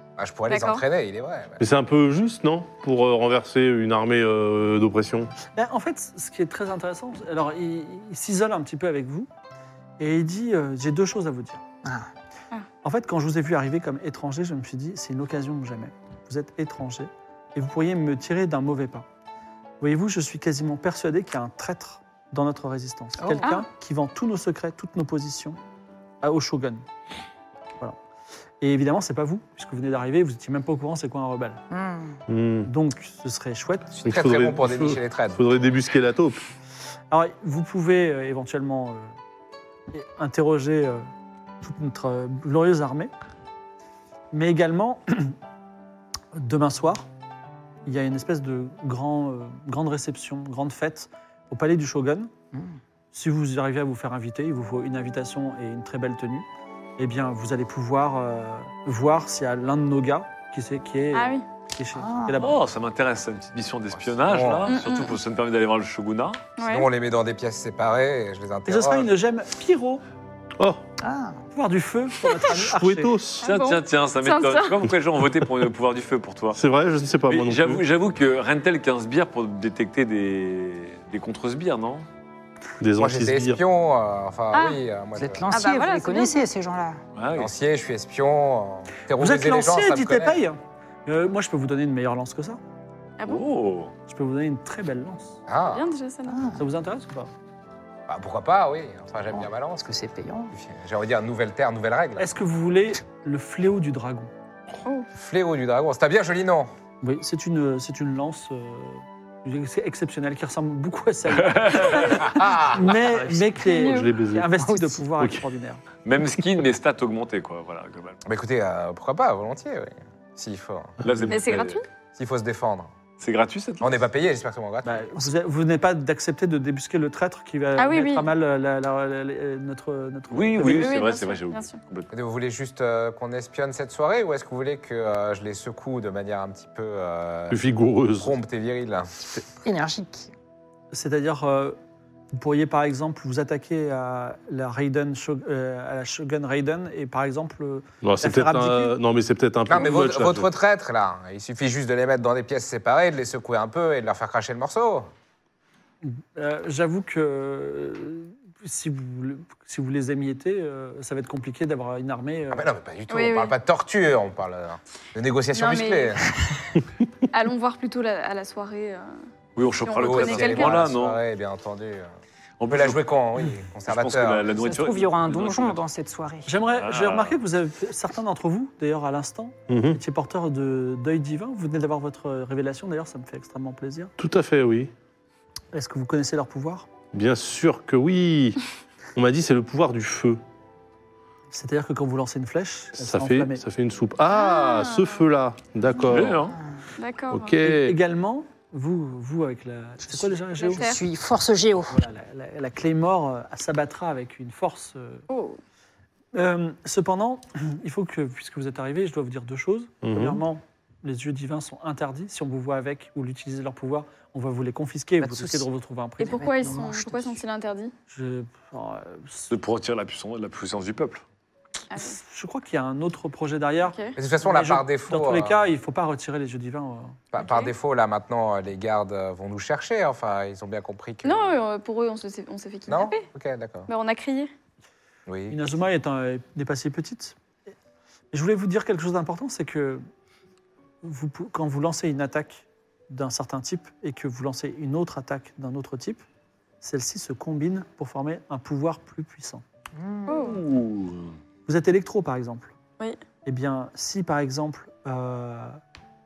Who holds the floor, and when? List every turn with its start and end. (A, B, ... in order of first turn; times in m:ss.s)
0:00.2-0:01.6 A
0:00.5-0:00.8 B
0:01.6-0:05.3 C
0:05.6-0:09.3 D
0:10.0-0:11.6 D
0:11.8-0:12.1 E
0:12.8-0:19.0 D
0:19.8-0:25.6 D
0:23.2-0:23.5 E
0:26.2-0:26.8 D
0:28.6-0:31.6 D
0:31.7-0:32.2 E
0:32.3-0:32.7 C
0:32.7-0:33.9 D
0:33.9-0:35.4 A
0:34.0-0:36.4 C
0:37.1-0:39.1 D
0:39.9-0:41.1 D
0:41.6-0:43.1 D
0:44.3-0:45.4 D
0:46.3-0:47.1 D
0:47.9-0:52.3 D
0:53.1-0:56.5 D
0:57.0-1:02.6 D
1:01.1-1:01.4 B
1:02.0-1:02.4 E
1:02.4-1:06.5 F
1:04.2-1:04.7 A
1:04.7-1:05.2 B
1:06.6-1:06.9 B
1:06.6-1:09.1 A
1:08.7-1:10.0 D
1:10.6-1:10.8 C
1:11.0-1:11.4 E
1:11.5-1:13.2 D
1:12.4-1:13.5 C
1:13.4-1:14.8 B
1:13.4-1:16.6 F
1:16.5-1:17.8 C
1:17.3-1:22.1 F
1:22.8-1:23.6 C
1:23.0-1:25.5 A
1:24.5-1:24.8 B
1:25.2-1:27.0 E
1:25.5-1:26.4 B
1:27.2-1:27.5 F
1:27.3-1:30.4 A
1:29.2-1:32.6 D
1:33.2-1:33.4 B
1:33.2-1:33.9 F
1:34.1-1:35.4 D
1:35.5-1:35.8 A
1:35.6-1:36.4 B
1:36.3-1:36.6 E
1:36.6-1:37.3 D
1:38.1-1:40.0 A
1:39.3-1:40.5 E
1:40.5-1:42.3 A
1:42.2-1:44.3 D
1:45.2-1:46.7 A
1:47.0-1:55.8 D
1:51.4-1:52.1 F
1:52.0-1:53.1 A
1:53.2-1:53.6 E
1:53.6-1:54.1 B
1:53.8-1:54.5 C
1:54.6-1:55.0 E
1:56.0-1:58.2 F
1:58.3-2:01.0 A
2:01.0-2:01.8 F
2:01.0-2:01.3 C
2:01.3-2:01.9 B
2:02.2-2:02.9 A
2:03.2-2:03.9 F
2:03.8-2:05.1 A
2:04.8-2:11.0 D
2:07.8-2:08.3 B
2:10.3-2:12.1 F
2:10.6-2:11.8 B
2:12.1-2:17.6 A
2:17.5-2:18.4 C
2:18.2-2:19.3 A
2:19.6-2:20.3 E
2:20.9-2:21.8 D
2:22.3-2:28.9 D
2:28.0-2:30.5 C
2:29.7-2:35.1 A
2:36.0-2:42.7 D
2:42.5-2:46.3 A
2:43.1-2:43.6 B
2:45.5-2:46.3 B
2:47.3-2:49.2 B
2:49.6-2:51.2 F
2:49.8-2:50.9 B
2:50.0-2:52.1 A
2:52.6-2:53.0 F
2:52.7-2:54.5 A
2:53.9-2:55.8 F
2:54.5-2:56.6 E
2:56.5-3:04.1 D
2:56.8-2:57.4 F
2:59.7-3:00.0 C
3:04.2-3:04.9 C
3:05.7-3:06.9 D
3:07.1-3:08.6 C
3:09.2-3:10.4 C
3:11.5-3:13.6 D
3:13.0-3:16.5 C
3:14.3-3:15.2 B
3:16.1-3:16.6 F
3:17.0-3:17.6 B
3:17.3-3:18.0 C
3:17.6-3:20.9 D
3:20.1-3:22.0 E
3:20.6-3:21.0 B
3:21.9-3:25.3 D
3:25.3-3:25.6 B
3:26.3-3:36.8 D
3:30.0-3:30.4 C
3:35.2-3:35.7 E
3:36.2-3:37.9 B
3:36.3-3:37.4 E
3:38.1-3:39.5 D
3:39.5-3:41.2 F
3:41.9-3:42.2 B
3:42.2-3:47.2 D
3:43.9-3:44.2 B
3:44.2-3:45.6 A
3:47.3-3:51.6 A
3:47.4-3:47.7 B
3:51.2-3:53.3 B
3:52.9-3:53.9 A
3:53.9-3:54.5 B
3:55.3-3:55.6 A
3:55.5-3:57.4 D
3:58.3-4:00.0 D
4:01.0-4:06.2 D
4:06.8-4:09.6 D
4:10.0-4:10.4 E
4:10.3-4:10.6 B
4:10.4-4:11.4 F
4:11.7-4:12.7 D
4:13.4-4:15.8 D